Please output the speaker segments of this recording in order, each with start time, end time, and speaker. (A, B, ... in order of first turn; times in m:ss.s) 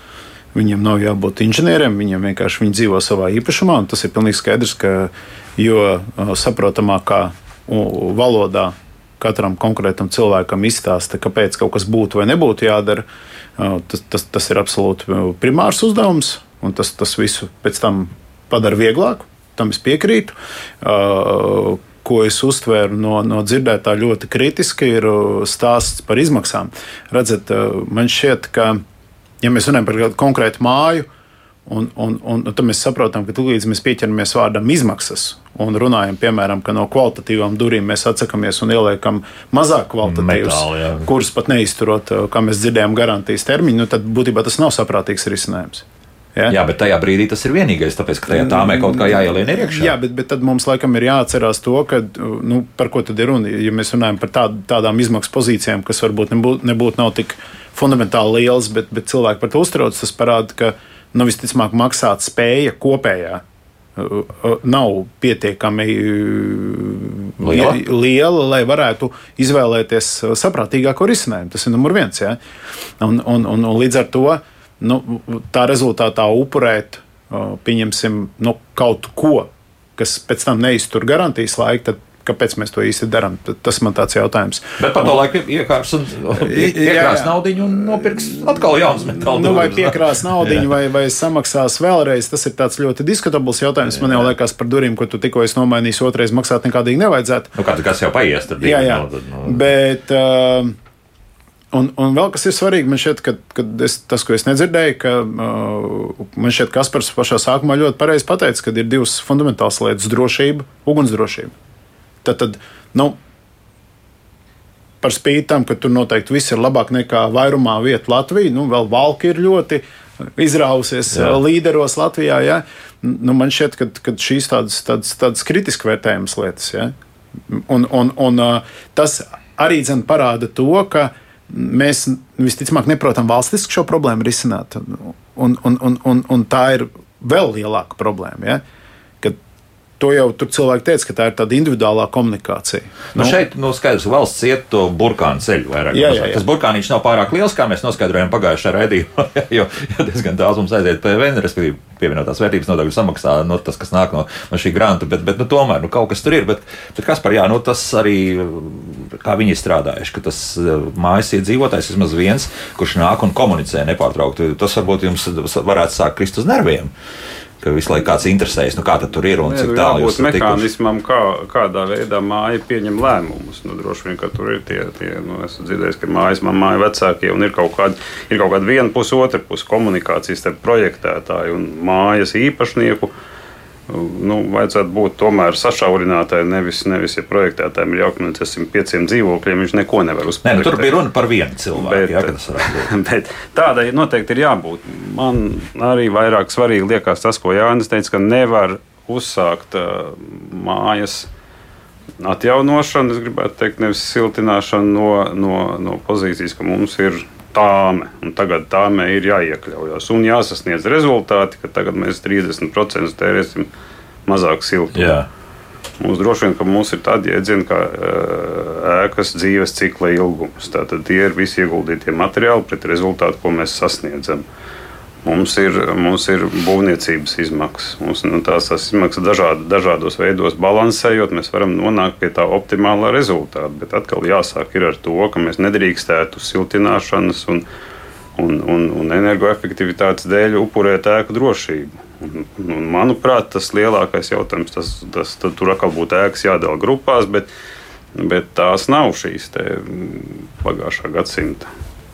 0:00.5-0:13.1 A
0:13.6-0:28.8 A
0:29.4-0:31.1 A
0:31.7-0:45.8 A
0:40.0-0:41.1 B
0:46.5-0:49.9 B
0:48.3-1:03.4 A
1:04.0-1:12.4 A
1:07.4-1:07.8 B
1:13.0-1:25.1 A
1:24.8-1:30.7 B
1:26.4-1:37.5 A
1:33.9-1:34.3 B
1:37.5-1:39.6 B
1:38.6-1:40.7 A
1:41.7-1:51.5 A
1:52.2-1:53.2 A
1:55.0-1:59.8 A
2:00.4-2:06.9 A
2:01.1-2:01.4 B
2:07.5-2:18.6 A
2:20.0-2:23.4 A
2:23.1-2:46.9 B
2:25.9-2:26.4 A
2:47.6-2:50.7 B
2:49.4-3:03.1 C
3:03.9-3:11.0 C
3:10.4-3:12.9 B
3:11.7-3:21.3 C
3:22.2-3:33.7 C
3:34.3-3:35.1 C
3:34.9-3:35.3 B
3:36.0-3:44.4 C
3:45.2-3:57.6 C
3:58.4-4:07.5 C
4:08.2-4:11.7 C